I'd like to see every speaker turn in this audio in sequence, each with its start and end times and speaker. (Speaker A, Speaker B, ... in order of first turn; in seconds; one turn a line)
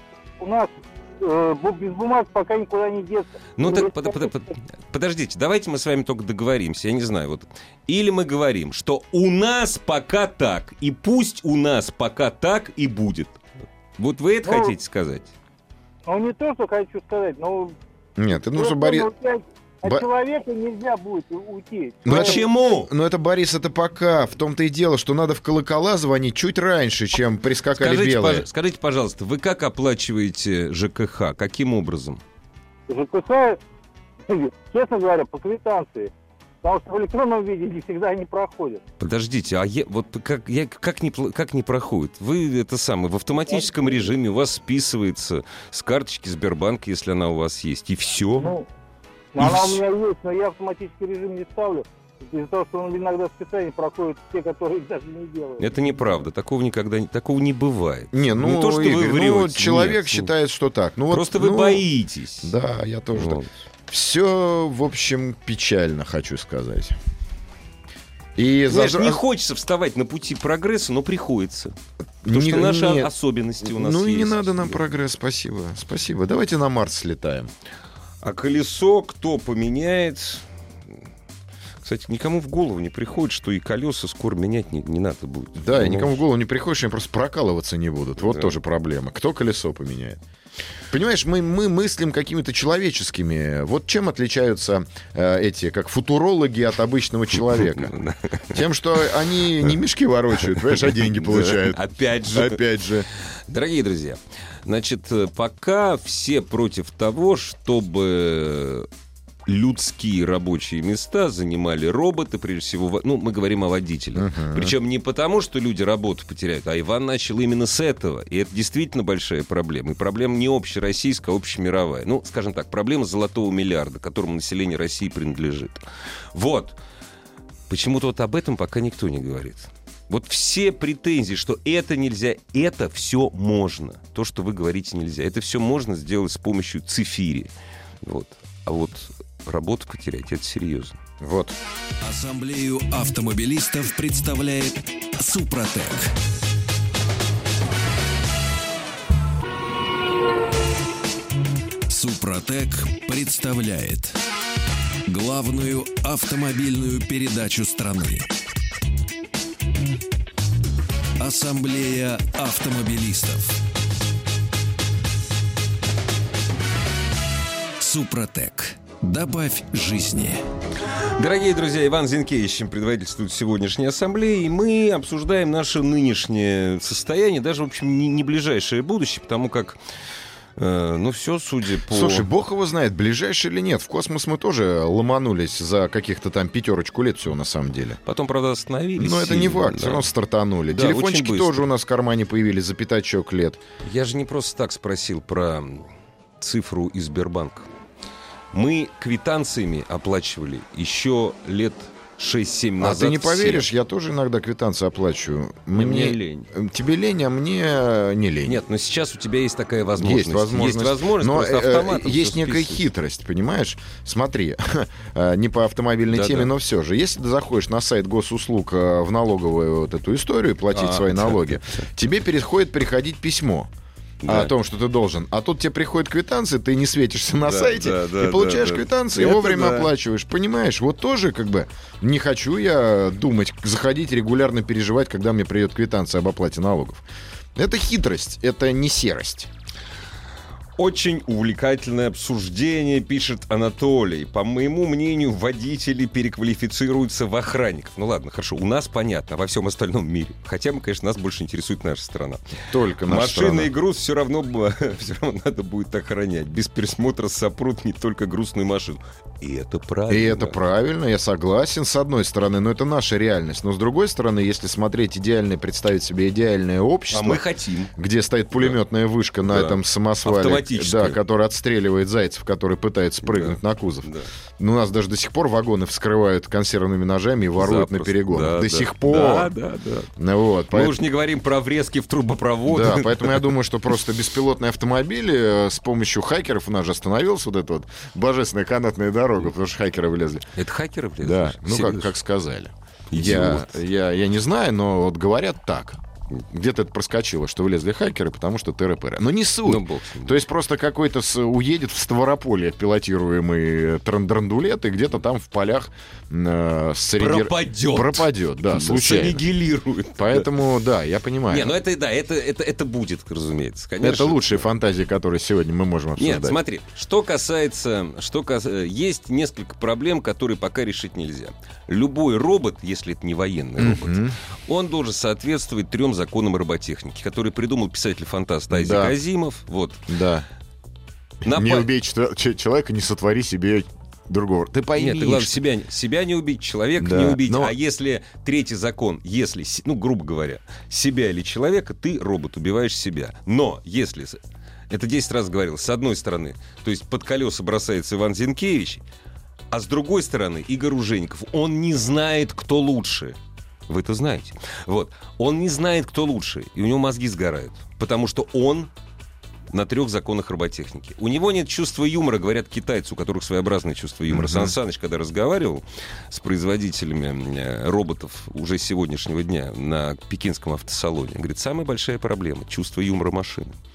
Speaker A: 0.4-4.3
Speaker B: 3.6-13.4
Speaker B: 14.0-15.3
Speaker A: 14.4-14.7
Speaker A: 16.1-17.7
Speaker C: 18.2-19.1
Speaker A: 18.5-22.4
Speaker C: 22.0-28.4
Speaker B: 22.1-22.9
Speaker B: 27.7-32.2
Speaker A: 32.9-33.6
Speaker A: 34.2-36.1
Speaker A: 36.6-38.8
Speaker B: 39.0-48.5
Speaker A: 43.5-43.9
Speaker A: 48.4-48.7
Speaker A: 49.3-55.8
Speaker B: 49.4-49.8
Speaker B: 55.6-60.3
Speaker C: 58.1-61.8
Speaker B: 61.1-62.5
Speaker C: 62.4-67.0
Speaker B: 63.1-63.5
Speaker C: 68.3-69.2
Speaker B: 68.7-71.7
Speaker C: 72.2-73.1
Speaker B: 72.2-74.8
Speaker C: 73.6-77.5
Speaker B: 78.2-80.4
Speaker B: 81.8-86.2
Speaker C: 85.6-90.2
Speaker B: 88.2-88.5
Speaker C: 90.9-97.9
Speaker B: 97.5-98.7
Speaker C: 98.5-103.1
Speaker B: 100.8-102.6
Speaker B: 103.5-108.9
Speaker B: 109.5-125.8
Speaker C: 114.2-114.7
Speaker B: 126.3-126.8
Speaker B: 127.7-137.5
Speaker B: 138.0-141.0
Speaker C: 141.2-141.6
Speaker D: 142.0-146.1
Speaker D: 151.9-154.2
Speaker D: 155.1-158.3
Speaker D: 161.2-163.6
Speaker D: 167.8-170.4
Speaker B: 171.2-179.8
Speaker B: 180.6-182.3
Speaker C: 181.9-188.0
Speaker B: 188.1-190.1
Speaker C: 189.0-193.6
Speaker B: 190.7-191.7
Speaker B: 193.8-195.9
Speaker B: 196.4-197.7
Speaker B: 198.5-203.7
Speaker C: 202.8-208.6
Speaker B: 205.7-206.5
Speaker B: 208.4-212.8
Speaker C: 210.0-223.7
Speaker B: 216.1-216.5
Speaker B: 220.7-221.8
Speaker B: 224.2-224.5
Speaker C: 224.2-237.0
Speaker B: 227.4-229.9
Speaker C: 237.6-239.5
Speaker B: 240.8-260.6
Speaker C: 252.7-253.7
Speaker C: 260.1-267.4
Speaker B: 267.1-267.9
Speaker C: 268.0-279.5
Speaker B: 269.4-271.2
Speaker B: 273.2-274.3
Speaker B: 277.6-280.1
Speaker C: 280.2-280.9
Speaker B: 280.7-283.5
Speaker C: 282.7-290.5
Speaker B: 290.6-292.1
Speaker C: 291.2-309.4
Speaker B: 293.1-293.8
Speaker B: 299.6-300.4
Speaker B: 307.2-310.5
Speaker C: 310.2-311.7
Speaker B: 311.5-314.6
Speaker C: 314.0-316.6
Speaker B: 316.2-330.1
Speaker C: 323.8-324.4
Speaker C: 328.7-329.1
Speaker C: 330.1-330.5
Speaker B: 331.4-331.9
Speaker C: 331.4-335.6
Speaker B: 335.0-349.0
Speaker C: 337.0-337.7
Speaker B: 349.7-353.4
Speaker B: 353.9-358.9
Speaker B: 359.7-373.8
Speaker C: 364.3-364.7